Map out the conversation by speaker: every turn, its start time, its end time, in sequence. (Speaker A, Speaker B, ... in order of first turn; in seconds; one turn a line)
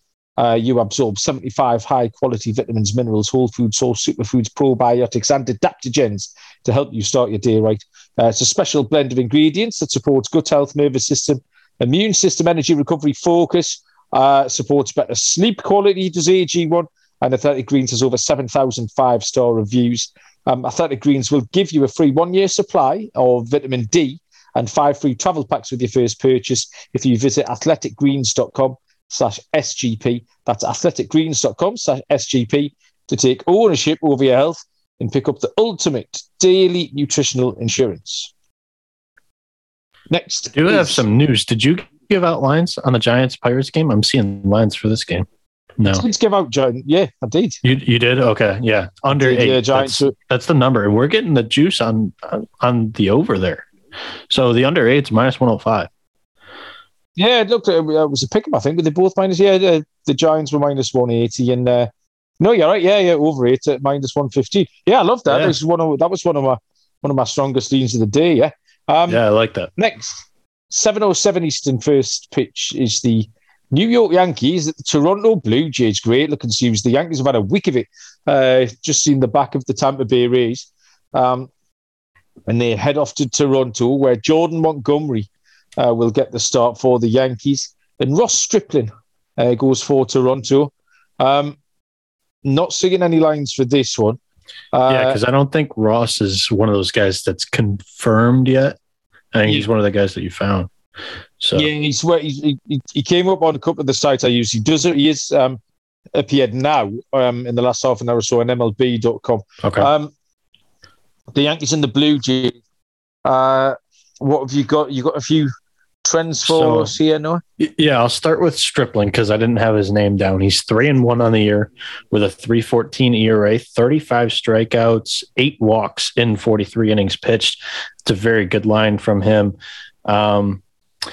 Speaker A: 0.4-38.3
Speaker A: 40.1-41.0
Speaker B: 40.5-45.3
Speaker B: 45.8-46.0
Speaker A: 45.9-47.6
Speaker B: 47.6-53.7
Speaker A: 49.1-50.1
Speaker B: 54.3-55.9
Speaker A: 57.2-61.9
Speaker A: 62.4-69.2
Speaker B: 65.3-65.5
Speaker B: 69.1-69.7
Speaker A: 69.8-81.5
Speaker A: 82.5-91.6
Speaker A: 92.4-94.2
Speaker A: 94.7-95.2
Speaker B: 94.9-98.8
Speaker B: 99.3-100.7
Speaker B: 101.4-101.7
Speaker A: 101.6-105.6
Speaker A: 106.2-110.1
Speaker B: 109.6-109.9
Speaker A: 111.3-112.6
Speaker A: 113.2-115.5
Speaker A: 116.0-117.4
Speaker B: 116.4-116.9
Speaker B: 117.6-129.6
Speaker B: 130.1-130.6